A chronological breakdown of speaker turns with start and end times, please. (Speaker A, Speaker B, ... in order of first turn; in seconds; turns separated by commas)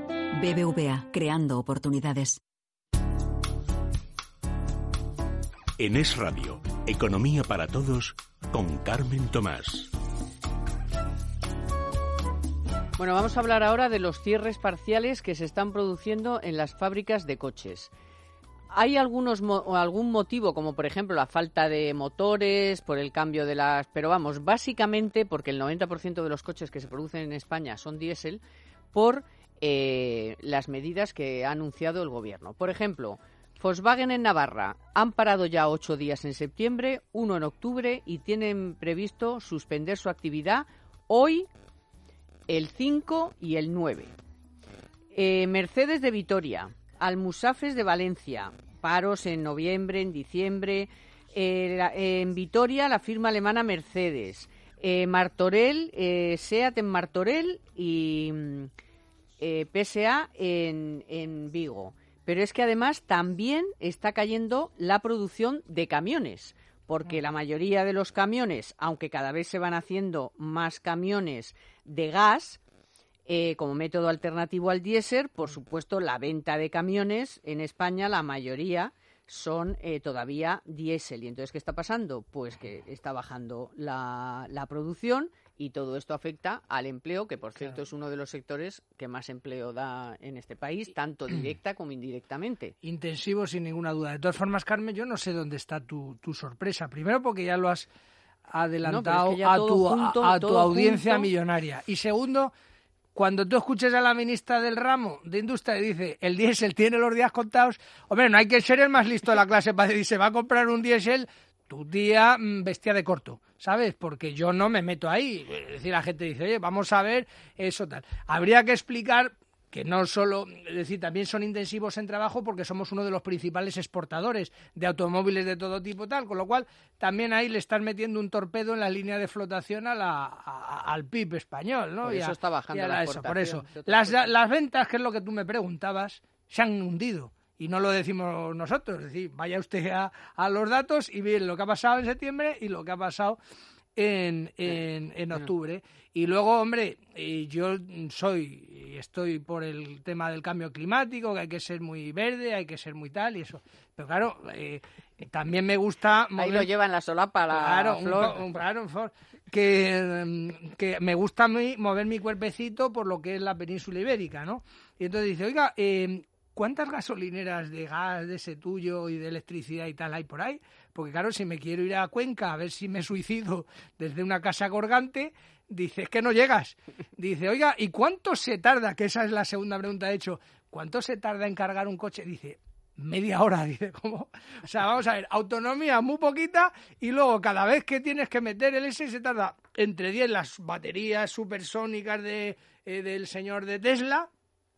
Speaker A: 0.3-2.4, Speaker B: 5.8-9.9, Speaker C: 13.0-17.9, Speaker C: 18.7-28.4, Speaker C: 28.9-41.5, Speaker C: 42.5-44.1, Speaker C: 45.1-58.7, Speaker C: 59.4-72.6, Speaker C: 73.3-92.7, Speaker D: 92.8-97.9, Speaker D: 98.5-102.5, Speaker C: 98.8-101.3, Speaker D: 103.1-143.4, Speaker C: 132.0-134.3, Speaker D: 143.9-156.7, Speaker C: 156.3-158.4, Speaker D: 157.5-194.3